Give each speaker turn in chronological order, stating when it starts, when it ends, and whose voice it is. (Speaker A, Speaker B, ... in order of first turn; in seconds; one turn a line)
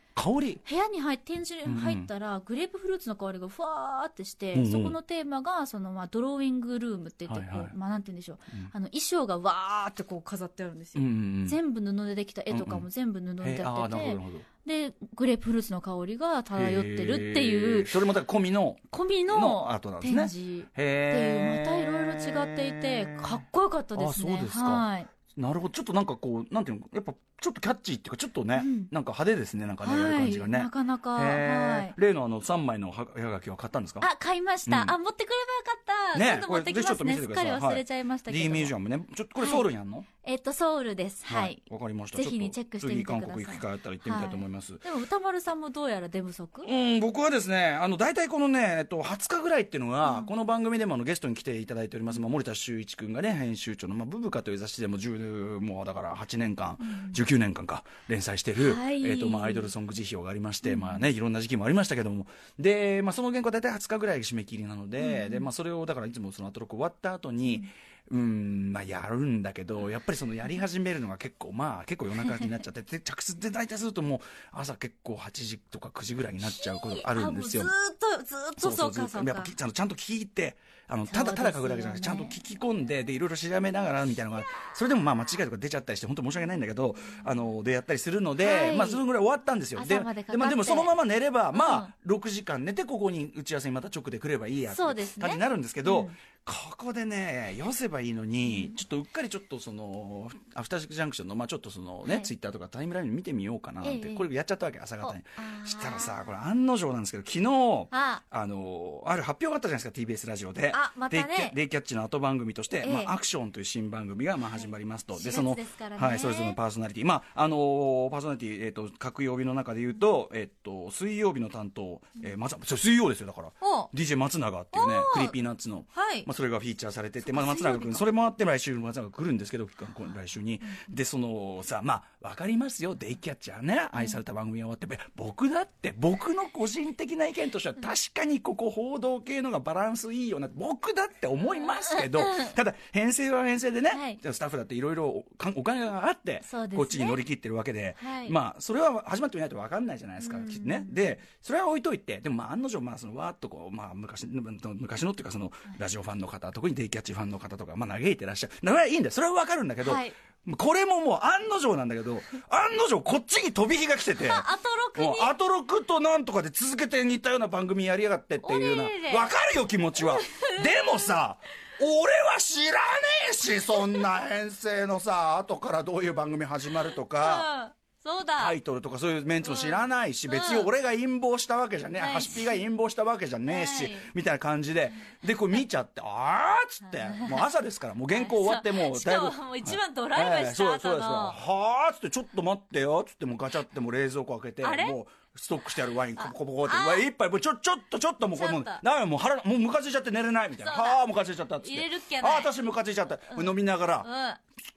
Speaker A: 0.1-0.6
Speaker B: 0.6-18.0
Speaker A: 1.6-2.1
Speaker A: 4.5-5.0
Speaker A: 7.3-7.7
Speaker A: 10.9-11.6
Speaker A: 12.5-12.8
Speaker A: 13.4-14.4
Speaker A: 16.5-23.4
Speaker B: 18.9-25.1
Speaker A: 23.9-34.1
Speaker B: 28.6-28.9
Speaker B: 29.8-31.9
Speaker B: 34.0-38.7
Speaker A: 34.6-35.0
Speaker A: 36.1-40.1
Speaker B: 39.4-39.6
Speaker B: 40.2-41.6
Speaker A: 41.2-44.8
Speaker B: 42.1-46.7
Speaker A: 46.6-77.7
Speaker B: 50.0-50.3
Speaker B: 56.8-57.2
Speaker B: 58.6-59.7
Speaker B: 60.6-61.0
Speaker B: 65.0-65.5
Speaker B: 76.4-79.5
Speaker A: 78.6-177.5
Speaker B: 81.1-82.4
Speaker B: 88.4-89.0
Speaker B: 89.8-90.9
Speaker B: 91.5-91.9
Speaker B: 94.7-96.1
Speaker B: 98.4-98.7
Speaker B: 103.8-104.2
Speaker B: 105.0-106.3
Speaker B: 107.9-108.2
Speaker B: 110.7-111.5
Speaker B: 112.8-113.1
Speaker B: 115.1-116.6
Speaker B: 123.6-123.9
Speaker B: 124.7-125.3
Speaker B: 125.9-126.3
Speaker B: 127.2-128.1
Speaker B: 141.9-142.5
Speaker B: 143.9-144.2
Speaker B: 146.4-147.2
Speaker B: 148.0-148.3
Speaker B: 150.2-151.0
Speaker B: 159.8-160.1
Speaker B: 164.2-165.3
Speaker B: 168.4-169.3
Speaker B: 169.9-171.1
Speaker B: 176.8-178.6
Speaker A: 178.4-204.1
Speaker B: 179.4-180.7
Speaker B: 181.9-182.6
Speaker B: 183.4-184.1
Speaker B: 186.8-187.5
Speaker B: 188.1-191.4
Speaker B: 194.6-195.0
Speaker B: 196.2-197.1
Speaker B: 198.3-198.8
Speaker B: 200.5-202.5
Speaker B: 203.3-204.4